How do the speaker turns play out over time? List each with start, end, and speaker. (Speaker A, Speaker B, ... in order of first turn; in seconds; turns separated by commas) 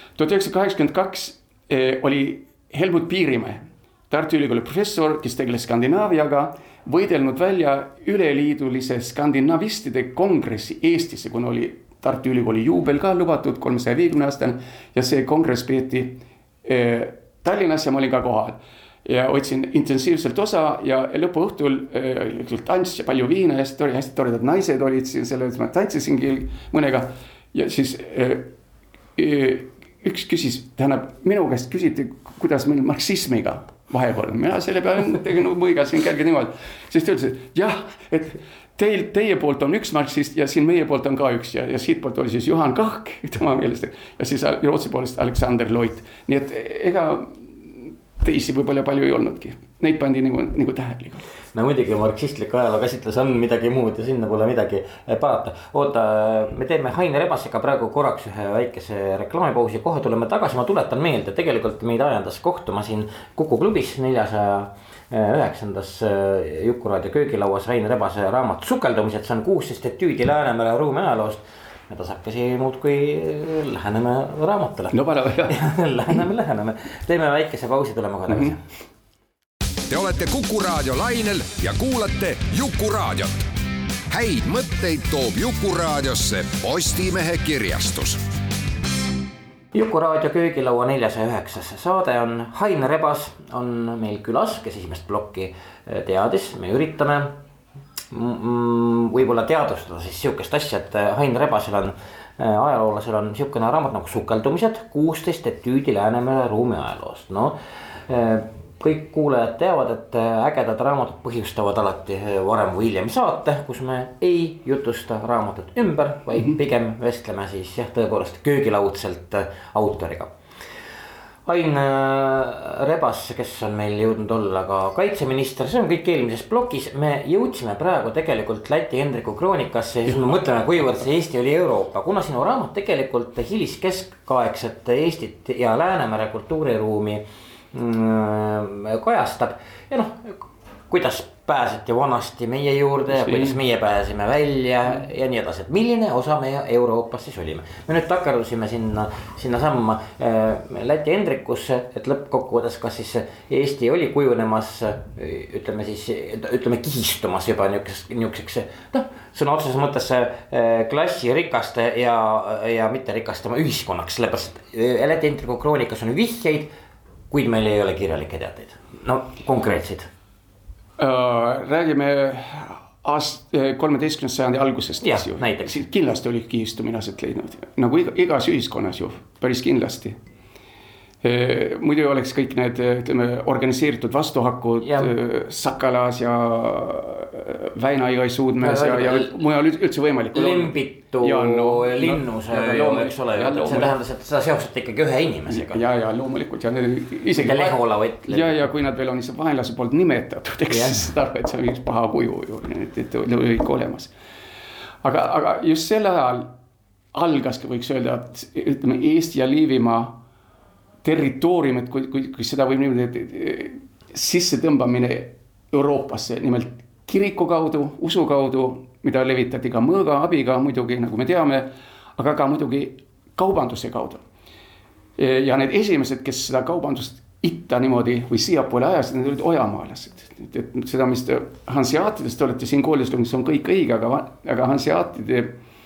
Speaker A: 0.2-28.5, Speaker A: 29.2-51.2, Speaker B: 51.5-78.6, Speaker A: 74.9-75.7, Speaker A: 78.3-78.5, Speaker C: 79.9-83.3, Speaker C: 84.1-88.2, Speaker B: 89.7-97.4, Speaker B: 98.1-120.3, Speaker B: 121.5-166.7, Speaker A: 143.1-143.6, Speaker B: 167.3-170.1, Speaker A: 171.0-180.2, Speaker B: 175.0-175.7, Speaker A: 181.2-193.9, Speaker B: 184.8-185.1, Speaker B: 188.6-189.4, Speaker B: 190.3-195.8, Speaker A: 195.5-204.1, Speaker B: 197.3-198.7, Speaker B: 200.7-201.0, Speaker A: 205.0-206.5, Speaker A: 207.1-210.2, Speaker A: 211.0-224.2, Speaker A: 225.2-235.6